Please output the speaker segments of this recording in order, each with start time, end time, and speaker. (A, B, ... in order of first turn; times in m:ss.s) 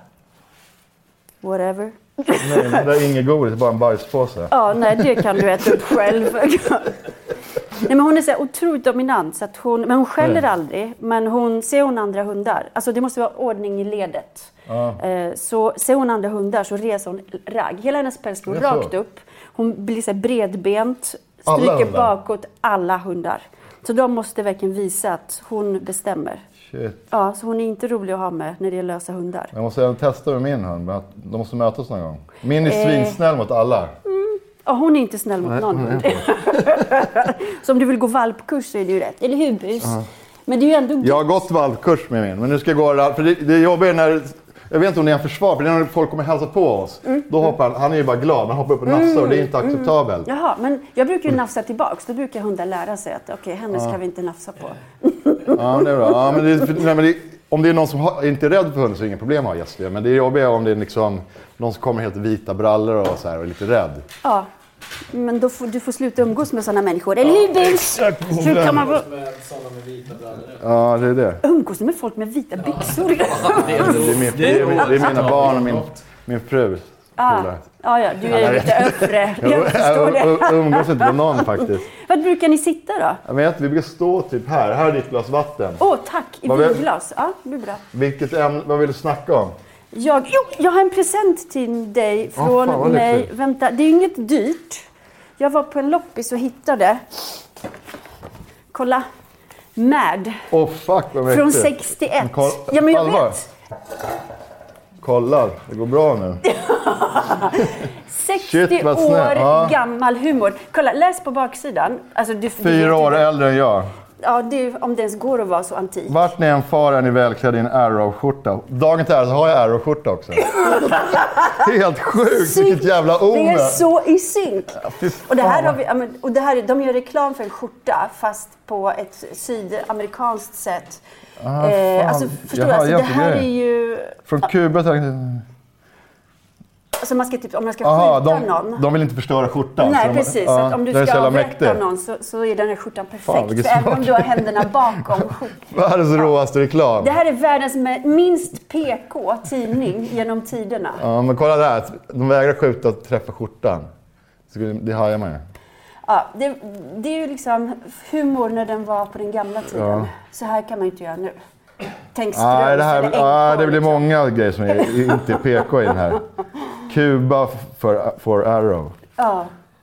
0:01.4-0:02.8 A
0:02.4-0:05.2 B
0:04.5-0:07.0 A
0:07.8-0:26.4 A
0:14.7-0:15.0 B
0:18.5-0:18.9 B
0:21.4-0:22.1 B
0:26.6-0:27.0 B
0:27.1-0:29.5 A
0:29.5-0:33.9 B
0:32.6-0:33.2 A
0:34.0-0:41.3 A
0:35.4-0:36.2 B
0:41.0-0:50.3 B
0:48.9-0:56.4 A
0:55.5-1:04.0 B
1:04.2-1:04.5 A
1:05.1-1:09.0 A
1:08.2-1:08.7 B
1:08.4-1:10.6 C
1:10.6-1:11.4 B
1:11.4-1:14.8 A
1:12.7-1:15.9 C
1:13.5-1:17.6 B
1:17.2-1:23.2 A
1:18.2-1:21.9 B
1:23.2-1:25.8 B
1:25.8-1:27.8 A
1:26.4-1:26.8 B
1:27.9-1:29.5 B
1:29.9-1:34.8 A
1:32.4-1:33.3 B
1:35.4-1:37.0 A
1:38.7-1:39.0 A
1:39.8-1:40.4 A
1:40.5-1:43.4 B
1:41.3-1:43.5 A
1:45.0-1:46.4 B
1:46.4-1:53.3 A
1:48.4-1:49.8 B
1:52.6-1:53.9 B
1:54.2-1:56.3 A
1:56.1-2:00.9 B
2:00.5-2:11.0 A
2:01.5-2:03.8 B
2:04.8-2:05.8 B
2:11.4-2:13.5 B
2:11.6-2:14.2 A
2:14.2-2:15.4 B
2:17.0-2:18.8 A
2:17.8-2:21.8 B
2:19.8-2:25.7 A
2:23.2-2:27.1 B
2:27.0-2:31.0 A
2:31.0-2:33.9 B
2:34.5-2:35.4 B
2:36.0-2:41.4 A
2:39.7-2:40.1 B
2:42.1-2:44.1 A
2:42.3-2:46.2 B
2:44.7-2:45.2 A
2:46.9-2:49.0 B
2:49.2-2:49.5 A